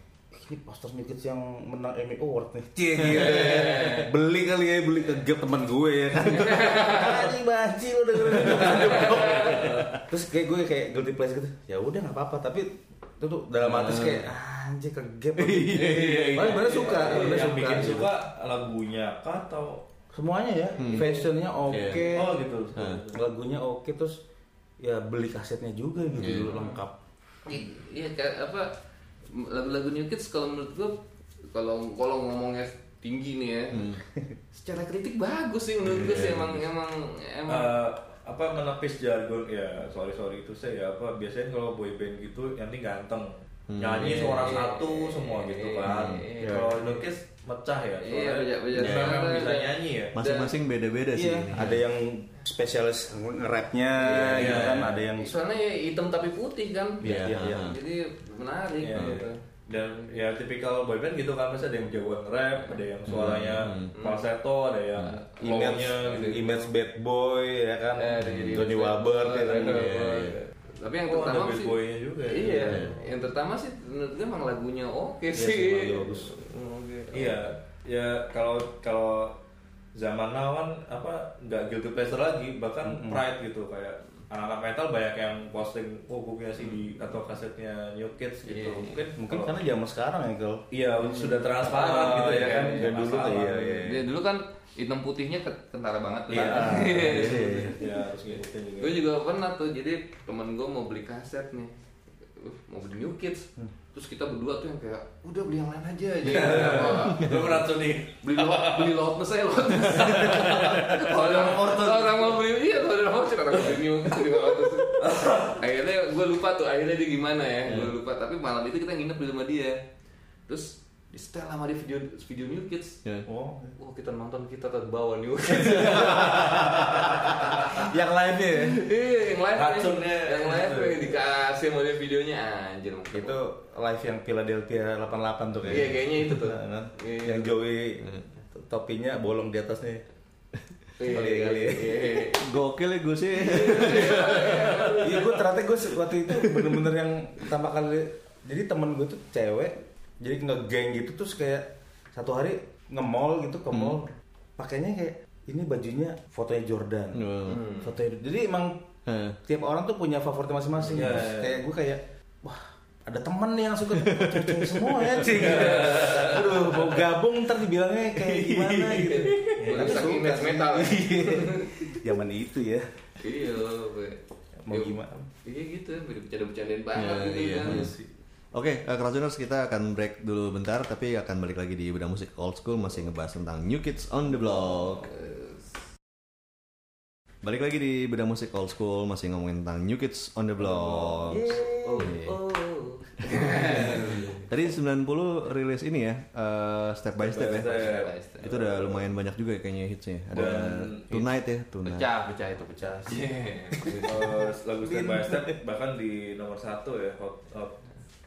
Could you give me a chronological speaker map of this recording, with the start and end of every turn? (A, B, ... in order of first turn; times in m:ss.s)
0:00.3-0:18.1 A
0:03.2-0:04.1 B
0:09.0-0:09.7 B
0:09.4-0:09.6 C
0:09.5-0:09.8 D
0:13.6-0:14.2 D
0:15.4-0:16.7 D
0:15.7-0:19.8 C
0:20.1-0:22.4 A
0:20.8-0:21.1 D
0:21.6-0:23.3 C
0:21.7-0:22.1 D
0:22.8-0:23.0 D
0:23.1-0:24.2 A
0:24.8-0:26.9 A
0:26.2-0:26.6 D
0:26.5-0:26.7 B
0:27.4-0:28.7 B
0:29.3-0:31.0 B
0:31.5-0:33.9 B
0:33.7-0:34.0 D
0:34.5-0:37.8 B
0:35.8-0:36.6 D
0:37.5-0:50.2 C
0:43.7-0:44.5 D
0:44.0-0:47.0 B
0:45.8-0:46.2 D
0:46.4-0:46.8 A
0:48.0-0:50.5 B
0:48.8-0:49.2 D
0:50.1-0:51.8 D
0:51.1-0:55.3 A
0:54.0-0:57.0 B
0:54.1-0:55.0 C
0:57.0-0:57.7 A
0:57.0-0:57.8 D
0:57.6-0:59.4 B
0:58.8-1:06.7 C
1:02.6-1:02.8 B
1:03.1-1:03.9 D
1:03.9-1:04.2 B
1:05.0-1:05.2 D
1:05.4-1:06.5 B
1:05.4-1:09.9 A
1:08.0-1:17.4 B
1:08.2-1:08.7 D
1:09.4-1:10.4 C
1:09.6-1:10.4 D
1:11.1-1:12.8 C
1:12.4-1:13.1 A
1:12.7-1:12.9 D
1:15.3-1:16.4 A
1:17.1-1:19.4 C
1:20.0-1:29.6 C
1:22.8-1:23.2 A
1:28.5-1:29.0 B
1:29.0-1:30.6 A
1:30.7-1:33.9 C
1:31.0-1:33.0 B
1:31.6-1:34.1 A
1:33.8-1:37.9 B
1:36.3-1:37.7 A
1:36.3-1:39.0 C
1:38.8-1:41.7 B
1:42.3-1:47.6 B
1:46.2-1:49.0 C
1:47.1-1:47.4 D
1:48.2-1:59.8 B
1:50.0-1:52.2 C
1:54.9-1:55.6 C
2:00.5-2:03.0 B
2:03.2-2:03.8 A
2:03.8-2:07.8 B
2:05.6-2:08.8 A
2:08.5-2:13.4 B
2:09.5-2:11.2 C
2:13.1-2:20.0 A
2:15.6-2:17.6 B
2:21.0-2:22.4 B
2:21.0-2:22.3 A
2:22.3-2:25.0 D
2:23.4-2:25.4 B
2:24.7-2:38.8 A
2:26.3-2:26.8 D
2:33.7-2:34.0 D
2:37.1-2:37.6 D
2:37.5-2:37.8 B
2:39.0-2:39.4 D
2:39.4-2:52.9 A
2:40.9-2:41.7 C
2:43.9-2:45.6 D
2:45.2-2:46.8 C
2:48.4-2:49.2 D
2:48.9-2:52.0 B
2:49.6-2:50.2 C
2:53.2-2:57.9 B
2:54.6-2:55.3 A
2:56.9-2:58.0 D
2:58.5-3:05.1 D
3:04.6-3:05.7 B
3:07.4-3:12.3 D
3:10.6-3:11.5 C
3:11.3-3:12.1 A
3:11.3-3:14.5 B
3:13.3-3:22.1 D
3:17.2-3:19.1 C
3:17.5-3:18.5 B
3:20.3-3:21.1 C
3:21.8-3:24.1 B
3:22.7-3:23.2 A
3:23.8-3:25.5 A
3:24.0-3:27.8 C